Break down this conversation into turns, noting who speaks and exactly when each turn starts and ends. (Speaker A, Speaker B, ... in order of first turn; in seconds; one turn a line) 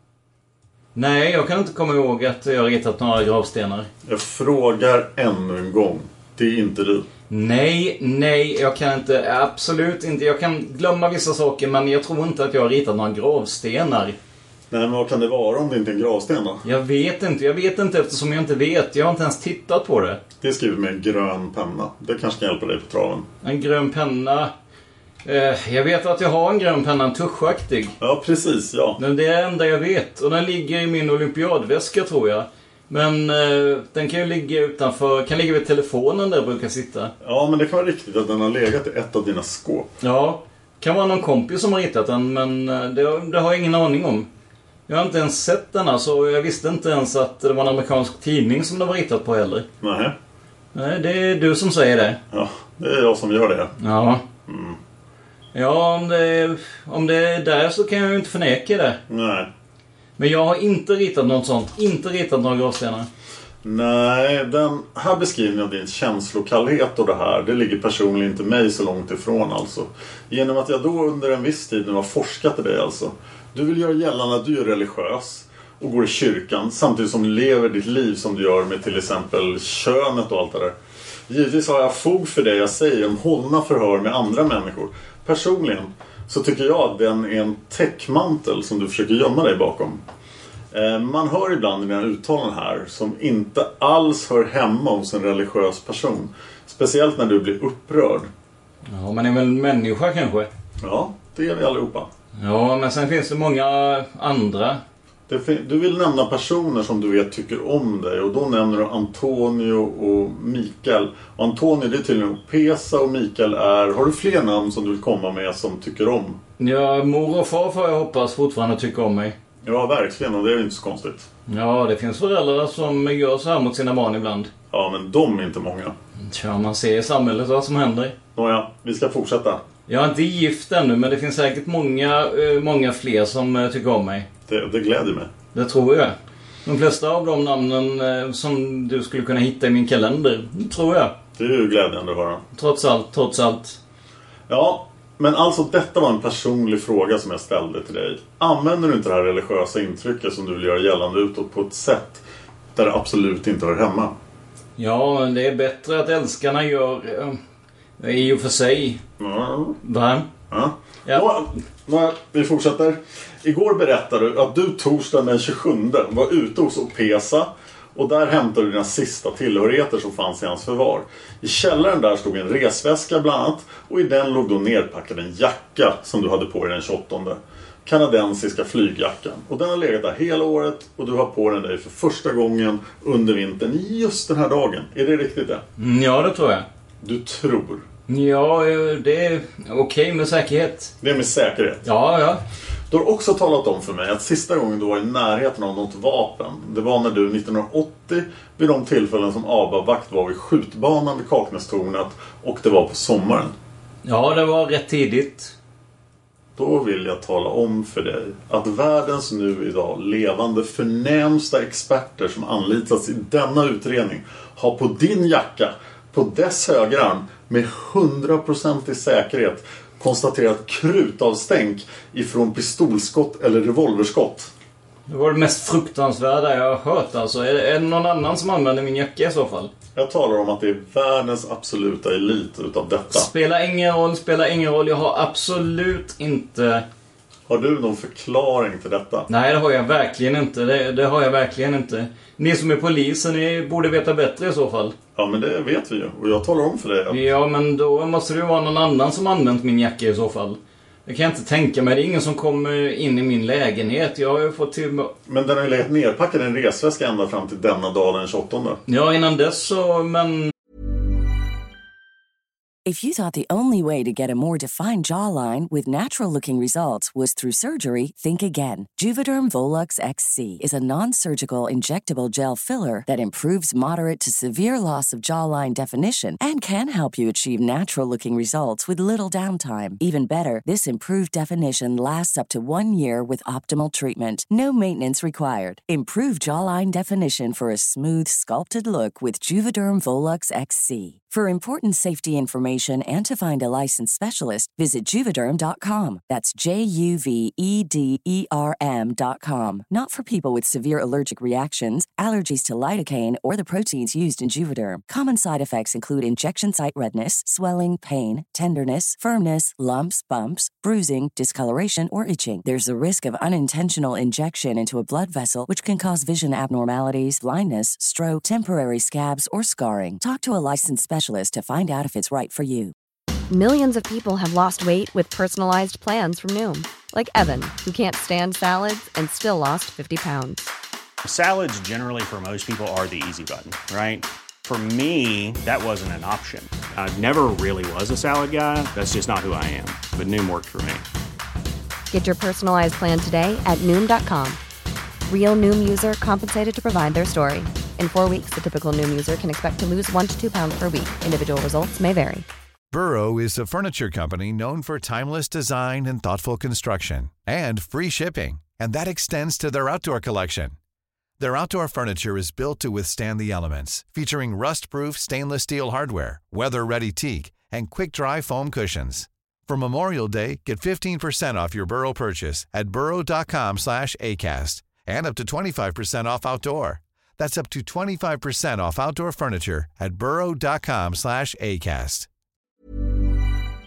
Speaker A: 0.9-3.9
Speaker B: 4.0-7.0
Speaker A: 7.3-14.2
Speaker B: 14.7-16.6
Speaker A: 16.6-20.2
Speaker B: 20.4-23.3
Speaker A: 23.4-24.5
Speaker A: 25.2-27.9
Speaker B: 28.0-29.0
Speaker A: 29.0-37.1
Speaker B: 37.2-39.9
Speaker A: 40.0-44.3
Speaker A: 44.9-49.6
Speaker B: 49.8-50.1
Speaker A: 50.7-52.2
Speaker B: 52.3-53.7
Speaker A: 53.8-54.2
Speaker B: 54.5-54.8
Speaker A: 55.5-59.0
Speaker B: 59.1-59.5
Speaker A: 60.2-63.1
Speaker B: 63.6-80.7
Speaker B: 81.3-90.0
Speaker B: 90.7-98.3
Speaker A: 98.8-100.5
Speaker B: 100.8-102.1
Speaker A: 102.4-104.8
Speaker B: 105.3-116.4
Speaker A: 116.6-119.3
Speaker B: 119.6-121.3
Speaker A: 121.5-124.5
Speaker B: 124.7-125.9
Speaker A: 126.2-128.1
Speaker B: 128.3-129.6
Speaker A: 129.9-134.3
Speaker B: 134.5-135.3
Speaker A: 135.5-141.1
Speaker B: 141.4-142.4
Speaker A: 142.5-143.8
Speaker B: 144.5-152.2
Speaker B: 152.7-154.1
Speaker A: 154.8-157.4
Speaker A: 158.0-159.0
Speaker B: 159.2-159.8
Speaker A: 159.8-160.3
Speaker B: 160.5-185.6
Speaker A: 185.8-186.7
Speaker B: 187.0-187.8
Speaker A: 188.1-190.9
Speaker B: 191.0-191.8
Speaker A: 191.8-192.4
Speaker B: 192.9-203.5
Speaker A: 204.0-205.5
Speaker B: 206.6-224.5
Speaker A: 225.1-229.7
Speaker B: 229.9-233.3
Speaker A: 233.1-236.8
Speaker B: 237.5-239.3
Speaker A: 239.3-244.9
Speaker B: 245.2-247.2
Speaker A: 247.1-255.1
Speaker B: 255.3-258.8
Speaker A: 258.9-260.5
Speaker C: 262.8-322.9
Speaker D: 323.5-330.7
Speaker E: 331.2-341.0
Speaker D: 342.1-344.6
Speaker D: 345.3-352.4
Speaker F: 352.9-360.8
Speaker F: 361.4-382.3